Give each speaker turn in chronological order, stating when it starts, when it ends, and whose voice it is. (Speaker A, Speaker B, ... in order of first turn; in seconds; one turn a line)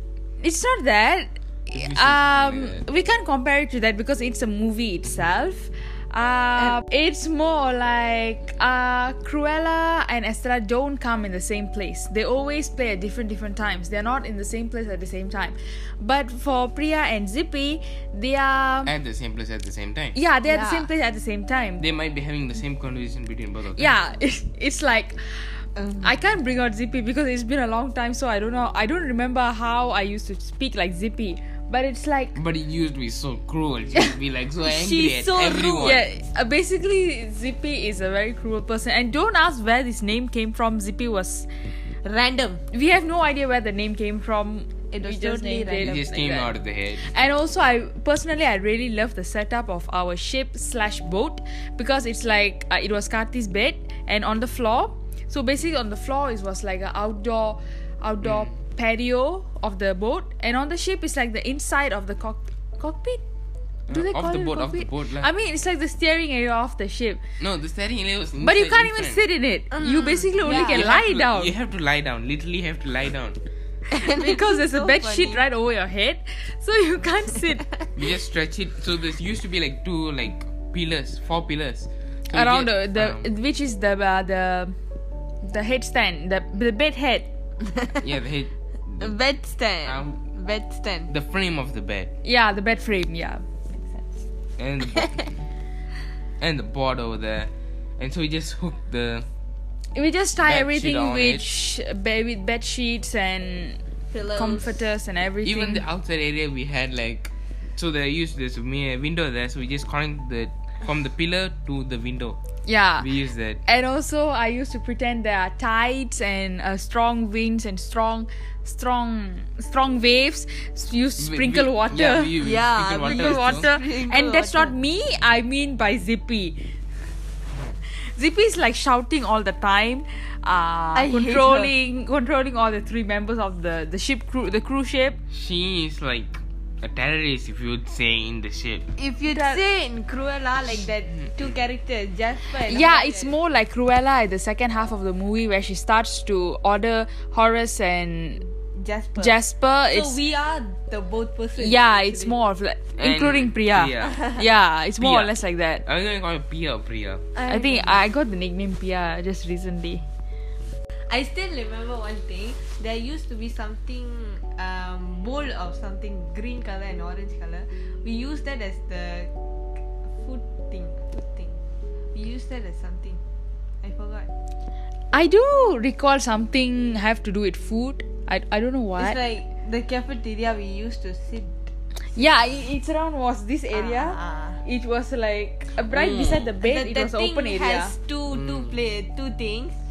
Speaker A: 0.4-18.9
Speaker B: 1.7-2.8
Speaker B: 18.8-20.2
Speaker A: 20.1-21.8
Speaker C: 20.4-20.9
Speaker B: 21.8-23.9
Speaker A: 23.8-25.2
Speaker C: 25.8-26.1
Speaker A: 26.0-32.4
Speaker B: 32.3-36.1
Speaker C: 34.6-36.0
Speaker A: 35.8-41.5
Speaker C: 42.0-42.6
Speaker A: 42.7-63.2
Speaker C: 44.9-46.2
Speaker B: 45.7-47.1
Speaker B: 63.9-65.3
Speaker A: 63.9-67.2
Speaker B: 67.4-69.2
Speaker A: 68.4-71.5
Speaker C: 69.7-70.9
Speaker B: 70.4-73.4
Speaker C: 73.9-75.4
Speaker A: 73.9-77.7
Speaker B: 78.0-83.3
Speaker A: 82.3-84.7
Speaker A: 85.4-87.3
Speaker C: 87.7-88.0
Speaker B: 88.0-89.2
Speaker C: 89.0-91.1
Speaker B: 89.8-90.3
Speaker B: 91.1-92.1
Speaker A: 92.2-94.2
Speaker B: 94.6-95.4
Speaker C: 94.9-95.2
Speaker B: 96.4-99.3
Speaker A: 99.9-103.8
Speaker B: 100.4-101.5
Speaker C: 104.1-104.8
Speaker A: 104.3-105.8
Speaker B: 105.4-112.4
Speaker A: 112.7-113.1
Speaker B: 113.0-113.6
Speaker A: 113.6-122.4
Speaker B: 121.2-123.7
Speaker C: 122.4-124.7
Speaker A: 123.0-126.6
Speaker A: 128.1-135.2
Speaker C: 130.9-131.7
Speaker B: 135.3-138.9
Speaker C: 139.0-143.3
Speaker A: 139.3-139.6
Speaker A: 142.6-148.4
Speaker C: 148.7-152.3
Speaker A: 149.2-150.2
Speaker A: 151.6-155.8
Speaker B: 153.0-154.2
Speaker B: 155.0-155.3
Speaker B: 155.8-157.2
Speaker C: 157.3-158.0
Speaker A: 157.5-160.1
Speaker C: 161.1-169.3
Speaker C: 170.1-171.6
Speaker C: 172.1-173.2
Speaker C: 173.8-174.3
Speaker A: 175.1-179.2
Speaker C: 179.0-181.7
Speaker A: 182.1-187.9
Speaker C: 183.7-184.6
Speaker C: 185.8-189.8
Speaker B: 188.3-188.8